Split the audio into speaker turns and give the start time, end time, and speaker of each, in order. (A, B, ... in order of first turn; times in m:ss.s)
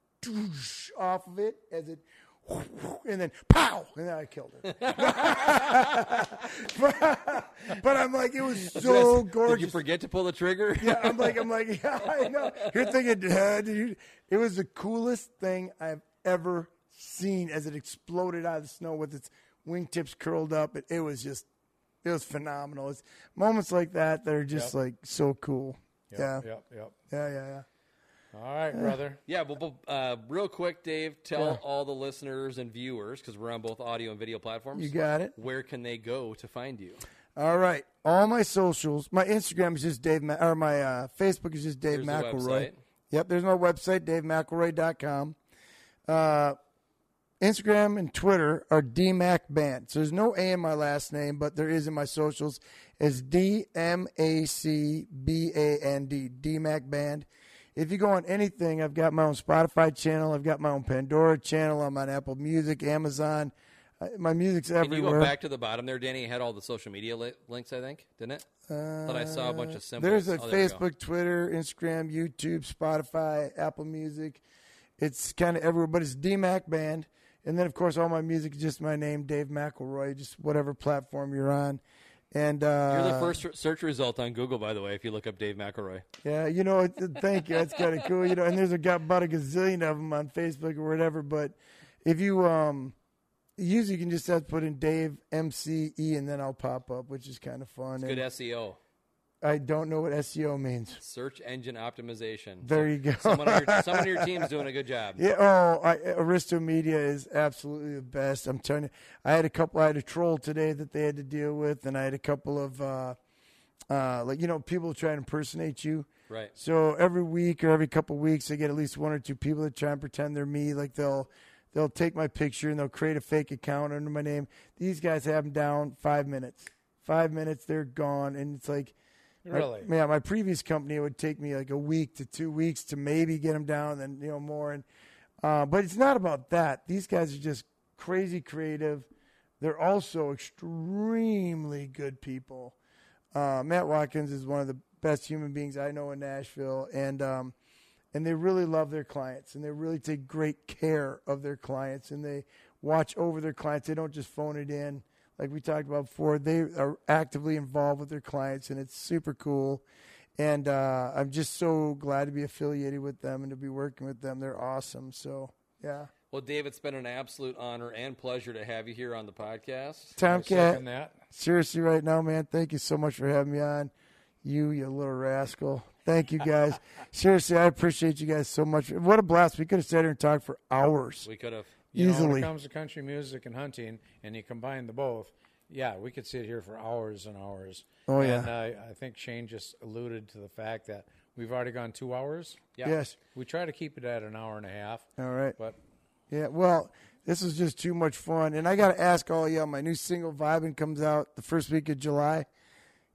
0:00.2-0:09.8 A
0:04.8-0:06.1 B
0:08.6-0:11.5 B
0:10.8-0:21.5 A
0:12.3-0:12.7 B
0:22.0-0:26.5 A
0:24.5-0:24.8 C
0:26.1-0:27.0 C
0:27.1-0:27.6 A
0:28.3-0:29.2 C
0:28.7-0:29.0 A
0:29.3-0:37.0 B
0:31.4-0:31.6 A
0:34.8-0:35.3 A
0:37.4-0:45.4 A
0:41.9-0:42.8 B
0:46.1-0:46.6 A
0:47.4-1:05.3 A
1:04.8-1:08.5 B
1:08.7-1:14.4 A
1:09.1-1:10.8 B
1:15.0-1:21.8 A
1:22.3-1:23.4 A
1:22.9-1:26.0 B
1:26.2-1:33.0 A
1:33.6-1:38.2 A
1:38.0-1:38.8 B
1:39.4-1:41.0 A
1:41.0-1:45.2 B
1:42.6-1:44.5 A
1:45.2-1:53.2 A
1:53.9-2:08.9 A
1:56.3-1:56.5 B
2:09.4-2:09.9 C
2:09.5-2:14.8 A
2:15.4-2:19.1 A
2:19.6-2:22.8 A
2:23.3-2:27.6 A
2:28.1-2:39.8 A
2:40.4-2:46.1 A
2:46.3-2:50.2 B
2:50.2-2:53.9 A
2:50.2-2:51.2 C
2:54.4-3:01.3 A
3:01.2-3:01.8 B
3:01.9-3:02.5 A
3:01.9-3:12.7 C
3:08.1-3:08.5 A
3:12.8-3:13.2 A
3:13.3-3:15.8 C
3:15.2-3:15.6 A
3:16.3-3:22.5 A